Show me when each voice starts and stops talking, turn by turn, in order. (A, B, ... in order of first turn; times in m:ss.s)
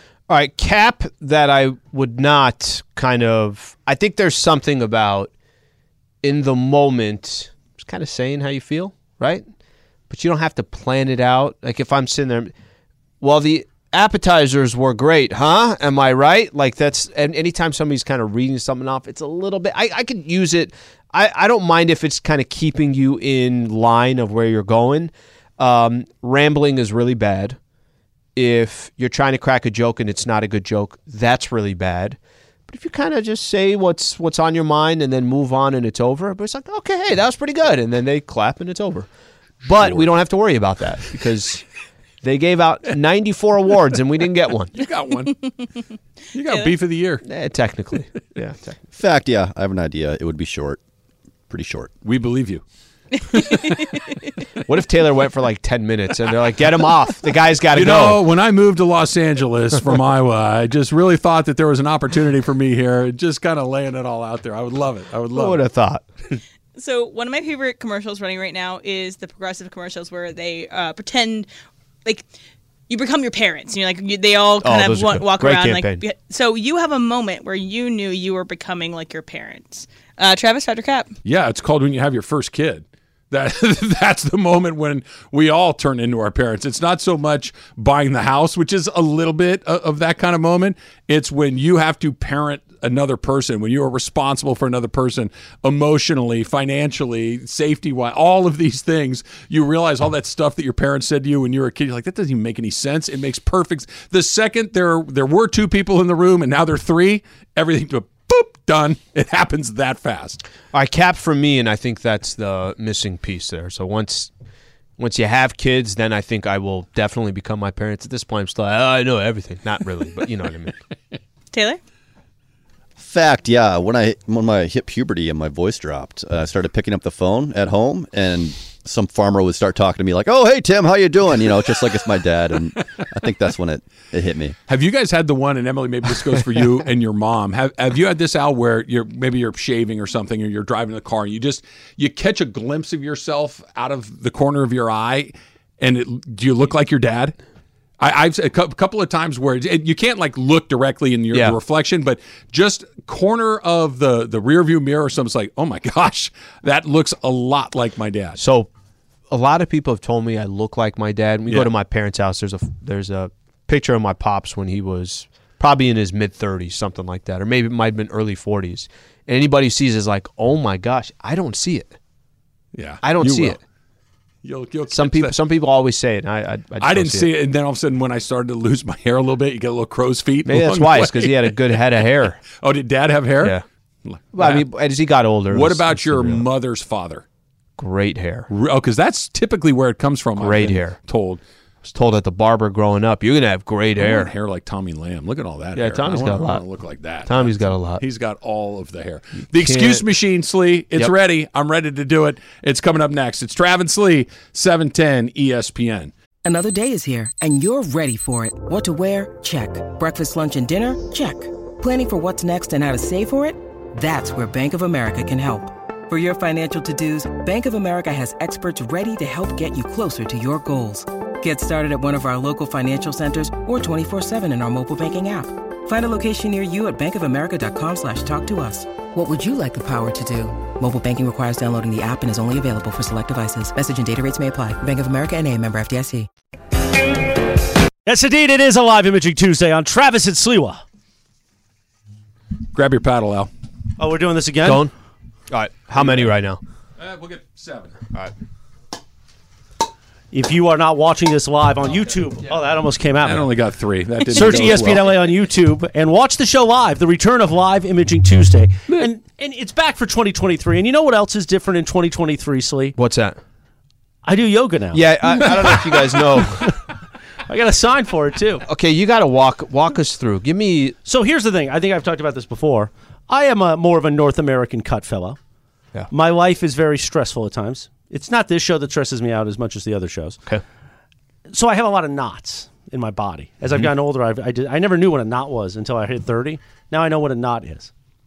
0:00.3-0:05.3 A
0:06.2-0:09.4 A
0:10.1-0:12.5 A
0:13.2-0:27.6 A
0:28.4-0:39.1 A
0:39.6-0:41.6 A
0:42.2-0:44.7 A
0:44.7-0:45.4 B
0:45.2-0:45.5 C
0:46.3-0:47.2 B
0:46.5-0:46.7 C
0:47.2-0:48.8 A
0:48.9-0:50.8 D
0:51.5-0:51.9 D
0:52.0-0:52.6 B
0:53.3-0:54.0 B
0:53.3-0:54.1 C
0:54.6-0:58.2 A
0:57.7-1:05.6 B
1:05.3-1:06.0 A
1:06.8-1:11.5 C
1:12.9-1:21.1 C
1:14.6-1:16.0 A
1:21.2-1:50.4 B
1:50.7-1:54.3 A
1:55.0-2:00.8 A
2:01.5-2:01.8 C
2:03.0-2:14.6 D
2:14.7-2:27.3 B
2:28.0-2:38.4 B
2:38.4-2:38.7 A
2:39.3-2:51.9 A
2:52.7-2:53.6 B
2:53.0-2:53.6 A
2:54.4-2:55.4 B
2:54.9-2:57.3 A
2:56.8-3:01.8 B
3:00.4-3:02.4 A
3:02.5-3:04.7 B
3:04.3-3:06.4 A
3:05.5-3:07.2 B
3:07.8-3:08.5 A
3:08.5-3:11.4 B
3:10.4-3:11.0 A
3:11.8-3:14.3 A
3:14.0-3:26.1 B
3:15.7-3:16.6 A
3:17.2-3:18.0 A
3:19.5-3:20.1 A
3:26.4-3:56.3 E
3:58.0-4:00.8 F
4:02.7-4:03.5 B
4:04.0-4:04.9 F
4:04.6-4:04.9 A
4:05.5-4:06.6 A
4:07.0-4:08.0 B
4:10.3-4:13.5 F
4:13.2-4:15.2 B
4:14.3-4:23.0 F
4:23.0-4:23.4 A
4:24.2-4:25.8 F
4:24.9-4:26.8 A
4:27.5-4:28.6 F
4:28.7-4:31.0 A
4:31.0-4:35.4 F
4:36.1-4:40.4 F
4:41.5-4:47.9 F